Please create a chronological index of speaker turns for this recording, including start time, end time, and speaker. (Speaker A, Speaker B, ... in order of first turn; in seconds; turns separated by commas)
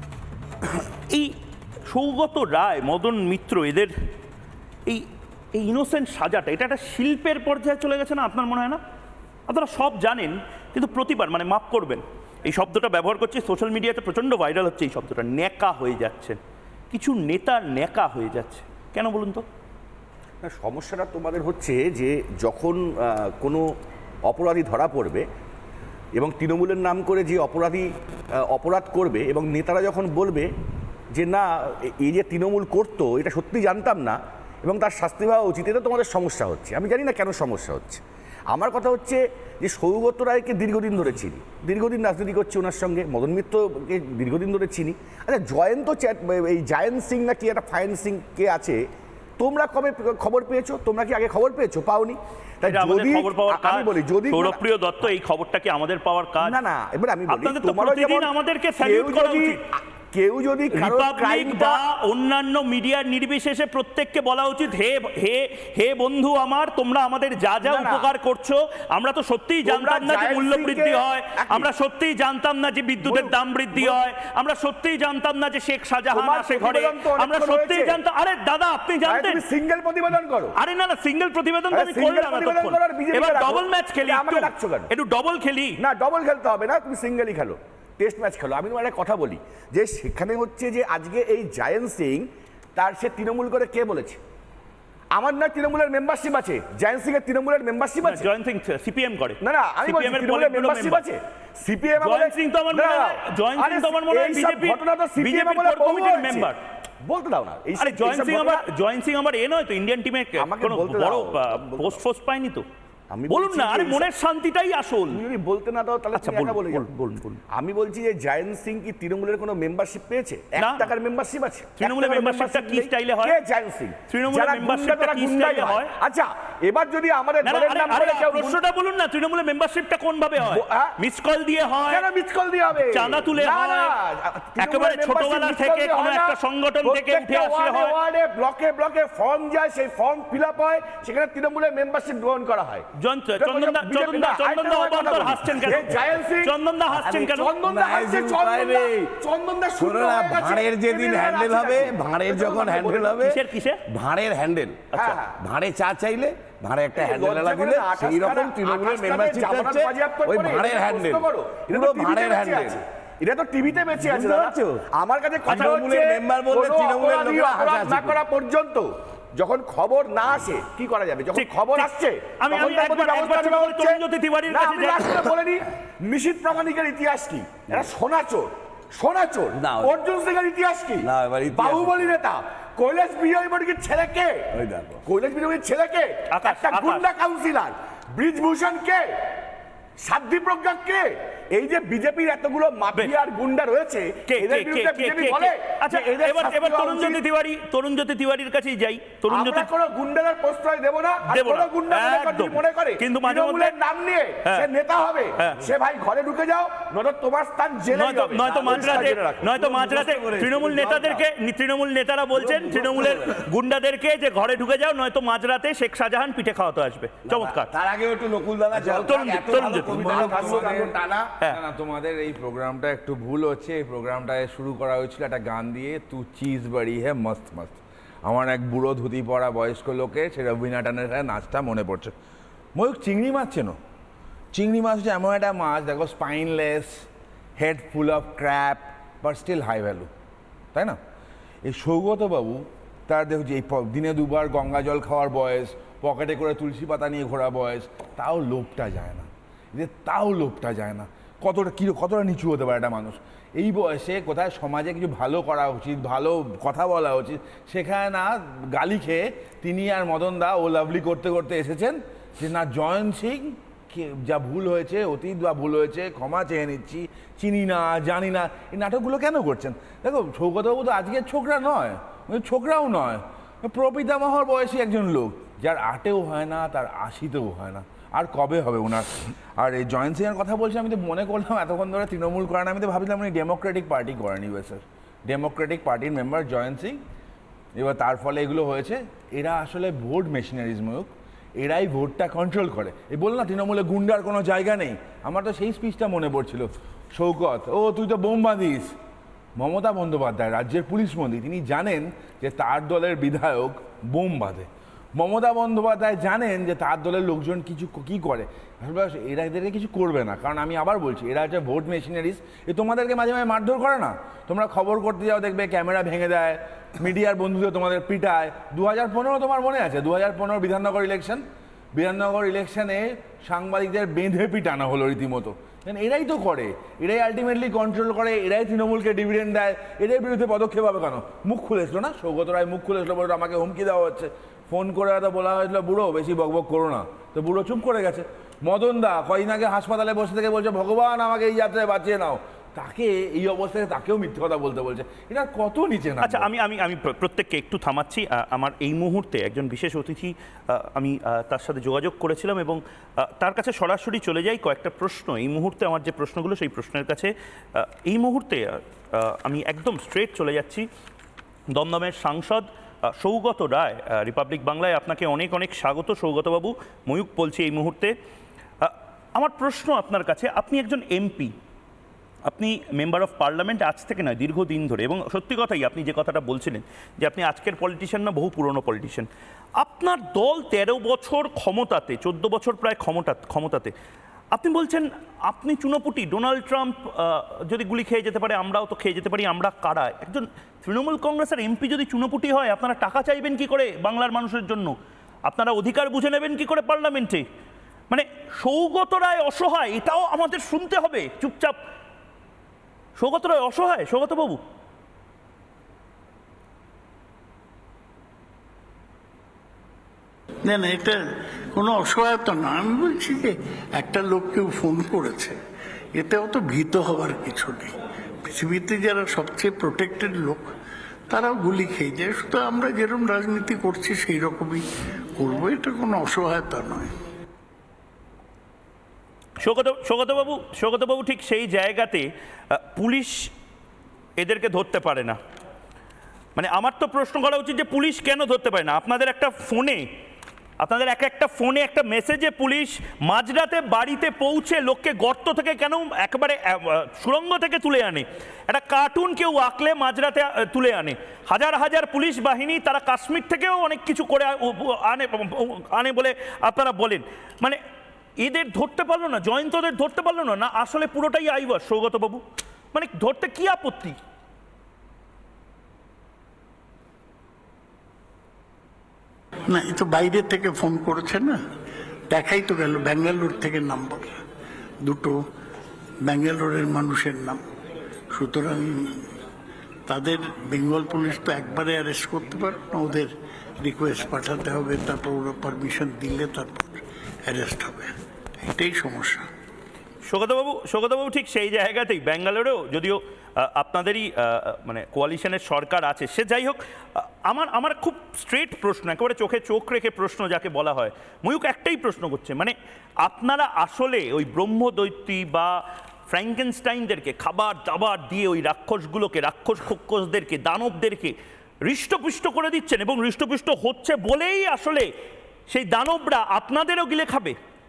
Speaker A: 0.9-1.3, Speaker A: 1.9-3.9, Speaker A: 4.9-8.8, Speaker A: 9.5-16.4, Speaker A: 16.9-19.4, Speaker B: 20.4-23.7, Speaker B: 24.3-25.2, Speaker B: 26.2-27.9, Speaker B: 28.4-30.5, Speaker B: 31.1-48.8, Speaker B: 49.4-54.6, Speaker A: 52.7-56.6, Speaker B: 56.4-61.8, Speaker A: 57.3-59.6, Speaker A: 60.7-79.4, Speaker B: 67.6-68.1, Speaker B: 69.6-71.7, Speaker B: 73.0-74.0, Speaker B: 76.1-78.0, Speaker B: 79.0-80.5, Speaker A: 80.5-85.8, Speaker B: 81.7-84.9, Speaker B: 85.8-94.2, Speaker B: 95.1-98.3, Speaker A: 98.0-101.0, Speaker B: 99.4-106.5, Speaker A: 102.0-106.6, Speaker B: 107.0-108.6, Speaker A: 107.8-112.6, Speaker B: 110.4-112.0, Speaker B: 113.1-114.1, Speaker A: 113.3-115.2, Speaker B: 115.1-116.9, Speaker A: 116.1-117.4, Speaker B: 117.5-128.6, Speaker A: 120.6-120.9, Speaker A: 121.8-123.4, Speaker A: 124.1-125.9, Speaker A: 127.4-132.1, Speaker B: 130.4-131.0, Speaker B: 131.9-142.9, Speaker A: 132.8-133.9, Speaker A: 134.6-137.9, Speaker A: 142.9-147.6, Speaker B: 143.4-146.6, Speaker C: 146.9-149.1, Speaker B: 147.3-153.2, Speaker C: 149.8-162.8, Speaker A: 153.2-153.8, Speaker A: 154.9-155.2, Speaker B: 154.9-155.4, Speaker B: 156.9-189.1, Speaker C: 163.9-164.8, Speaker C: 165.4-168.2, Speaker A: 165.5-165.8, Speaker A: 171.3-175.3, Speaker C: 179.5-179.9, Speaker C: 181.0-182.1, Speaker C: 184.5-185.0, Speaker A: 186.3-187.1, Speaker B: 190.0-197.2, Speaker A: 194.3-199.7, Speaker B: 199.3-209.6, Speaker A: 201.3-203.8, Speaker A: 205.4-205.7, Speaker A: 207.9-217.7, Speaker C: 208.5-211.2, Speaker C: 212.4-213.4, Speaker C: 217.3-221.2, Speaker A: 218.9-220.3, Speaker D: 219.3-232.1, Speaker B: 220.7-220.9, Speaker D: 232.8-233.8, Speaker D: 234.5-240.1, Speaker D: 241.7-287.0, Speaker D: 287.8-298.9, Speaker D: 299.6-321.4, Speaker D: 321.9-346.5, Speaker A: 346.2-360.9, Speaker A: 361.7-368.1, Speaker A: 368.8-371.5, Speaker A: 372.5-383.9, Speaker A: 384.5-397.4, Speaker A: 398.1-401.8, Speaker A: 403.2-404.6, Speaker E: 410.7-411.2, Speaker E: 411.7-415.6, Speaker E: 416.2-420.7, Speaker E: 421.3-424.9, Speaker E: 425.4-427.1, Speaker A: 429.6-433.5, Speaker A: 434.4-435.4, Speaker A: 436.6-440.1, Speaker A: 440.8-457.8, Speaker A: 458.4-464.2, Speaker E: 469.7-471.6, Speaker E: 472.3-474.4, Speaker E: 475.0-475.4, Speaker E: 476.2-477.6, Speaker E: 478.3-479.4, Speaker E: 480.1-489.5, Speaker A: 490.3-511.3, Speaker A: 511.9-515.1, Speaker A: 515.7-517.5